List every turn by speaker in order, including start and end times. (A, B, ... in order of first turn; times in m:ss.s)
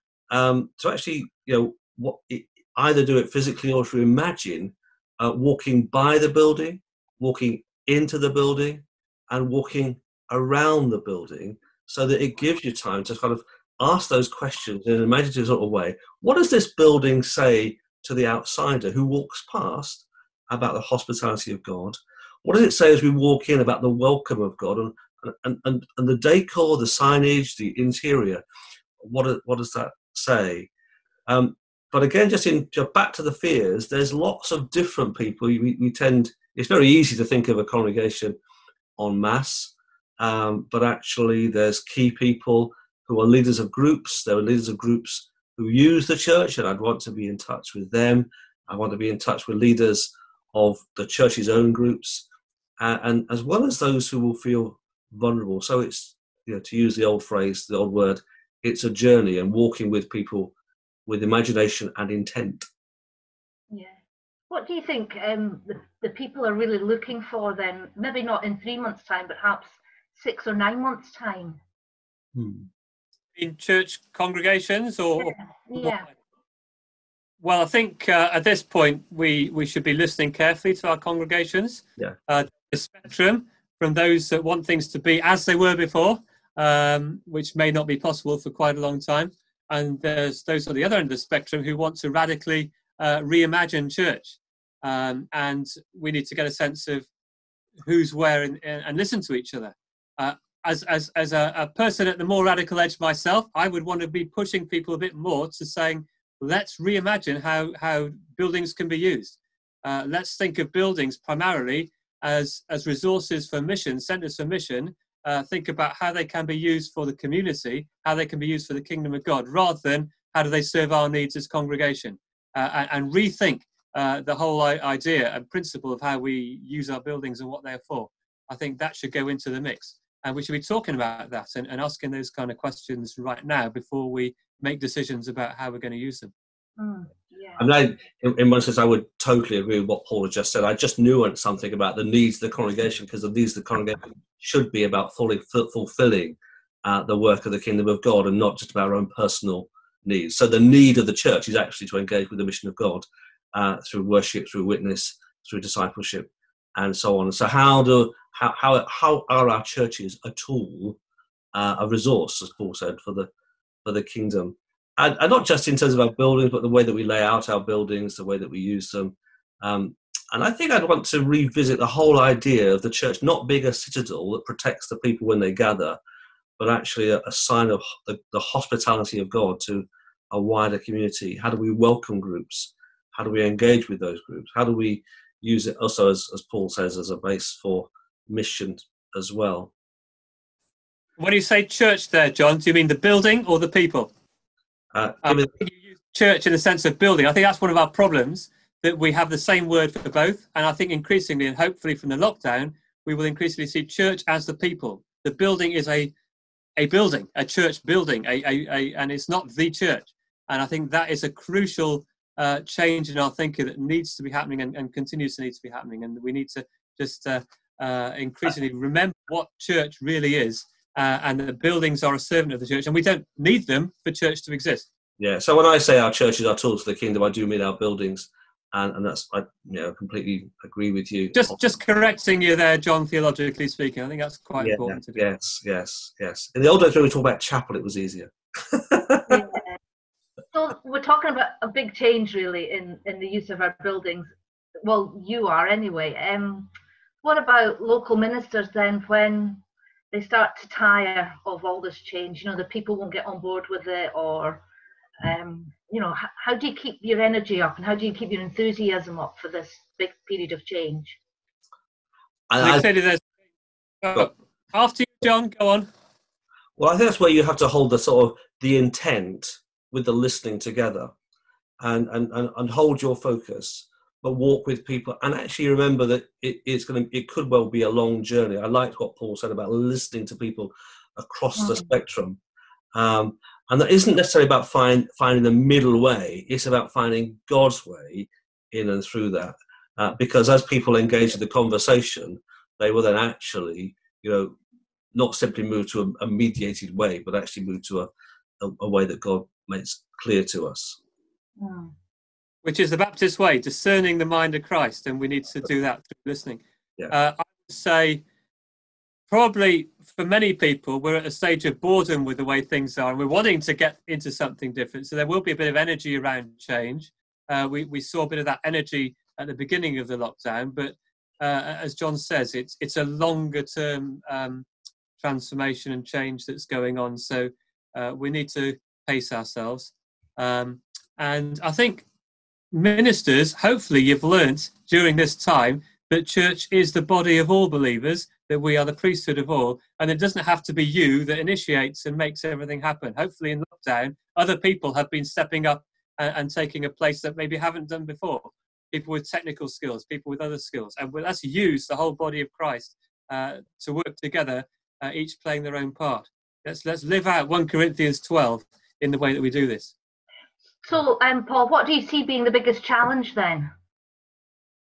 0:00.3-0:28.4 A
0:29.0-0:30.7 A
0:31.3-0:38.4 A
0:39.0-0:52.3 A
0:52.8-1:00.5 A
1:01.1-1:02.7 A
1:03.7-1:04.0 B
1:04.5-1:11.6 B
1:12.4-1:12.7 A
1:13.4-1:16.1 C
1:15.2-1:16.1 B
1:17.4-1:37.1 C
1:37.8-2:16.3 C
2:16.8-2:17.7 B
2:17.6-2:41.0 A
2:41.5-2:43.3 A
2:43.8-2:56.0 A
2:56.6-3:09.7 A
3:11.2-3:14.1 C
3:14.9-3:15.5 A
3:15.2-3:26.1 C
3:26.8-3:44.9 C
3:45.2-3:51.5 A
3:51.3-3:55.2 C
3:54.6-3:59.4 A
3:59.3-3:59.8 B
4:00.5-4:04.3 B
4:04.8-4:06.7 B
4:07.2-4:14.6 B
4:15.2-4:21.2 B
4:22.5-4:22.9 A
4:22.6-4:23.2 C
4:24.0-4:25.9 C
4:26.8-4:31.1 A
4:31.8-4:42.4 A
4:41.6-4:41.9 B
4:42.9-4:54.6 A
4:55.1-4:58.1 A
4:58.6-5:01.0 A
5:01.6-5:01.9 B
5:02.6-5:08.2 C
5:09.3-5:24.7 C
5:25.2-5:32.0 C
5:32.7-5:59.9 C
6:00.8-6:03.7 B